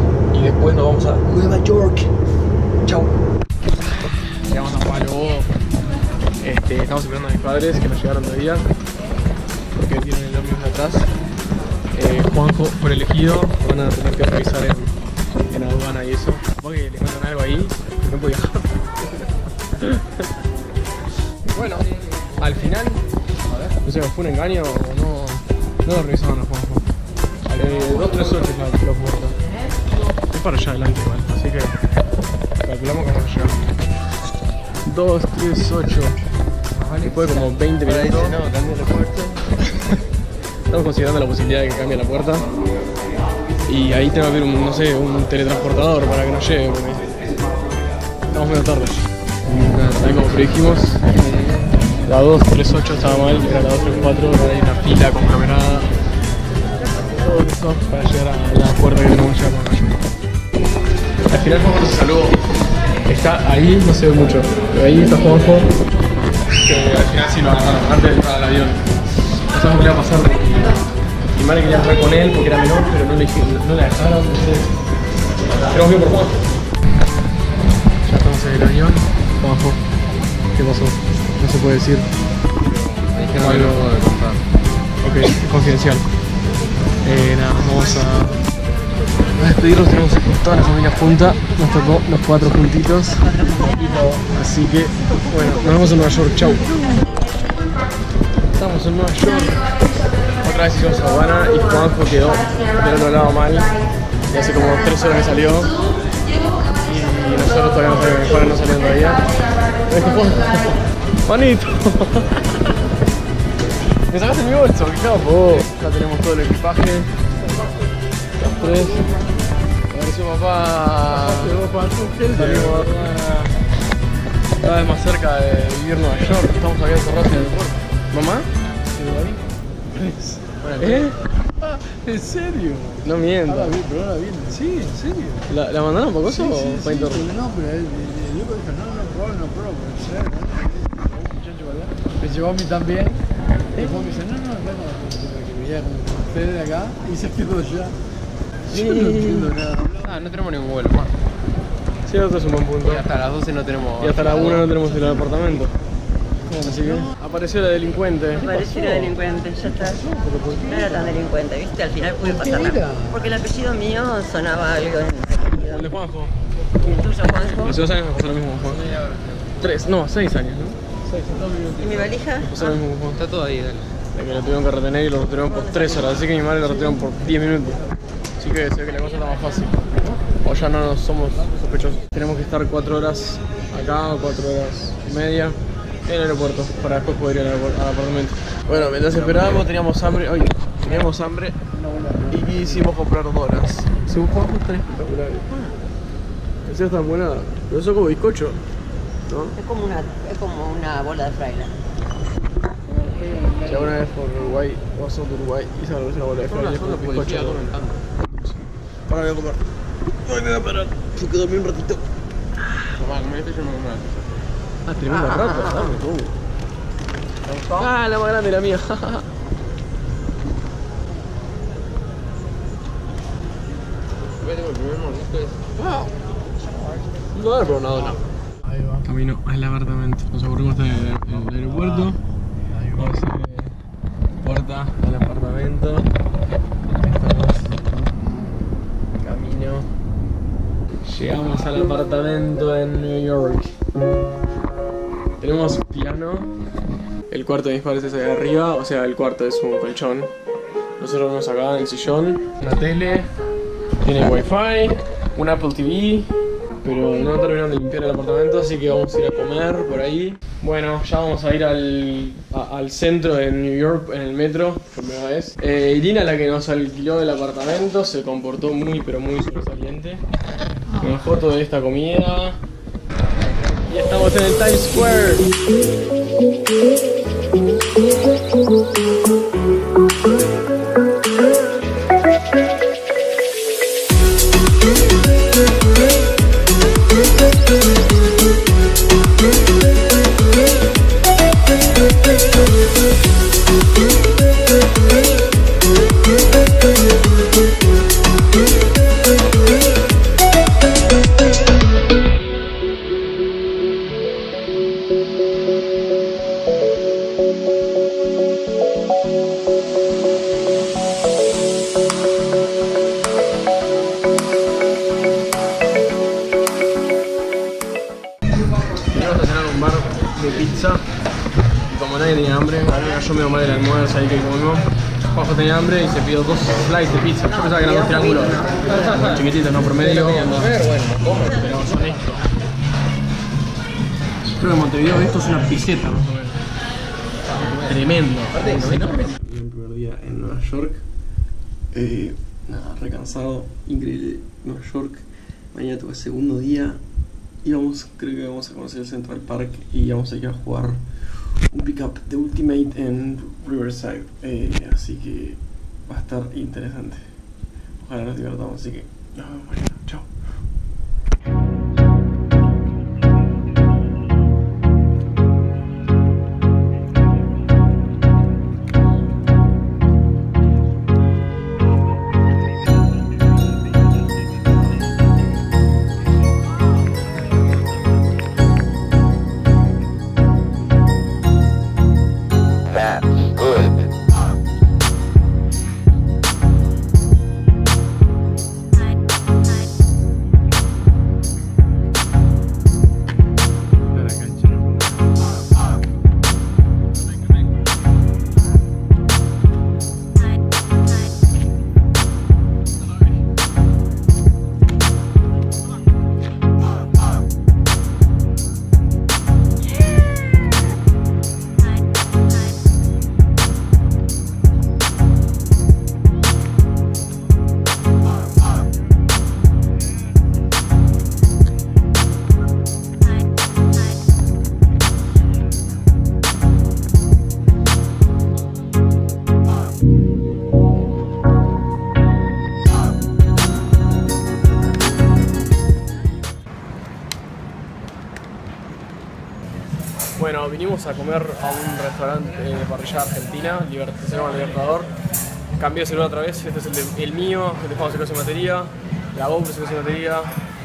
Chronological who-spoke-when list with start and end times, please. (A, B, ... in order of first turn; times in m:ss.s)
0:00.3-0:02.1 A
0:02.8-0:03.2 A
0:03.8-0:05.5 A
0:06.4-0:08.6 A
0:09.7-0:11.1 A
0:11.9-0:14.9 A
0:15.5-0:18.9 A
0:19.8-0:20.3 A
0:21.5-0:23.0 A
0:23.8-0:26.8 A
0:27.4-0:29.4 A
0:30.3-0:31.8 A
0:32.6-0:33.6 A
0:34.8-0:36.2 A
0:36.9-0:39.5 B
0:37.0-0:38.4 A
0:39.6-0:40.0 A
0:40.7-0:42.5 A
0:43.6-0:47.1 A
0:48.3-0:49.1 A
0:49.5-0:52.1 B
0:50.0-0:51.0 A
0:52.0-0:55.9 A
0:57.2-1:00.0 A
1:01.3-1:02.4 A
1:03.0-1:05.7 A
1:06.6-1:08.9 A
1:09.5-1:10.8 A
1:11.3-1:14.8 A
1:15.6-1:16.4 A
1:18.0-1:19.8 A
1:20.5-1:22.1 A
1:22.8-1:24.4 B
1:23.4-1:23.9 A
1:25.0-1:26.1 A
1:27.0-1:28.4 A
1:29.4-1:36.7 A
1:38.5-1:43.8 A
1:44.3-1:45.7 A
1:46.7-1:52.7 A
1:54.1-1:57.1 A
1:58.4-1:59.1 A
1:59.9-2:01.6 A
2:01.1-2:03.1 C
2:02.3-2:03.6 A
2:04.6-2:08.5 A
2:08.9-2:09.4 C
2:10.0-2:11.0 C
2:10.8-2:11.2 A
2:11.6-2:15.4 C
2:13.0-2:13.8 A
2:15.5-2:17.3 A
2:16.2-2:23.2 C
2:23.7-2:28.0 C
2:28.7-2:30.0 C
2:28.7-2:29.5 A
2:30.0-2:31.1 B
2:32.0-2:33.0 A
2:32.8-2:34.8 B
2:34.0-2:35.7 A
2:36.5-2:38.5 A
2:38.4-2:40.0 D
2:40.0-2:41.0 C
2:40.6-2:45.9 D
2:42.2-2:43.3 C
2:45.5-2:46.3 A
2:46.8-2:47.8 D
2:47.6-2:48.8 A
2:48.6-2:49.5 B
2:49.6-2:51.5 A
2:51.3-2:52.1 B
2:51.8-2:52.7 D
2:52.4-2:53.2 A
2:53.1-2:53.9 B
2:54.1-2:57.8 A
2:58.4-3:11.6 A
3:09.1-3:09.6 B
3:11.9-3:12.6 C
3:12.3-3:15.6 A
3:16.6-3:18.6 A
3:19.3-3:19.6 A
3:19.6-3:21.7 D
3:22.9-3:23.9 C
3:23.6-3:29.6 A
3:26.4-3:28.1 B
3:30.2-3:32.0 A
3:32.9-3:34.4 B
3:34.8-3:36.3 A
3:37.7-3:39.3 A
3:44.4-3:45.7 B
3:45.8-3:46.1 A
3:47.3-3:48.2 A
3:48.6-3:49.0 C
3:49.0-3:52.2 A
3:52.8-3:53.7 A
3:54.4-3:56.1 A
3:56.9-3:58.0 A
3:59.2-3:59.9 A
4:01.0-4:03.7 A
4:05.4-4:06.5 A
4:07.3-4:10.3 A
4:11.0-4:13.3 A
4:14.0-4:30.2 A
4:30.9-4:32.6 A
4:33.9-4:35.5 A
5:19.0-5:21.0 A
5:21.9-5:30.8 A
5:27.7-5:29.2 D
5:30.1-5:31.6 B
5:31.4-5:32.4 A
5:34.5-5:36.6 A
5:37.5-5:39.3 B
5:37.8-5:41.0 A
5:41.9-5:47.0 A
5:47.6-5:57.3 A
5:58.0-6:00.3 A
7:20.4-7:25.1 A
7:25.8-7:30.5 A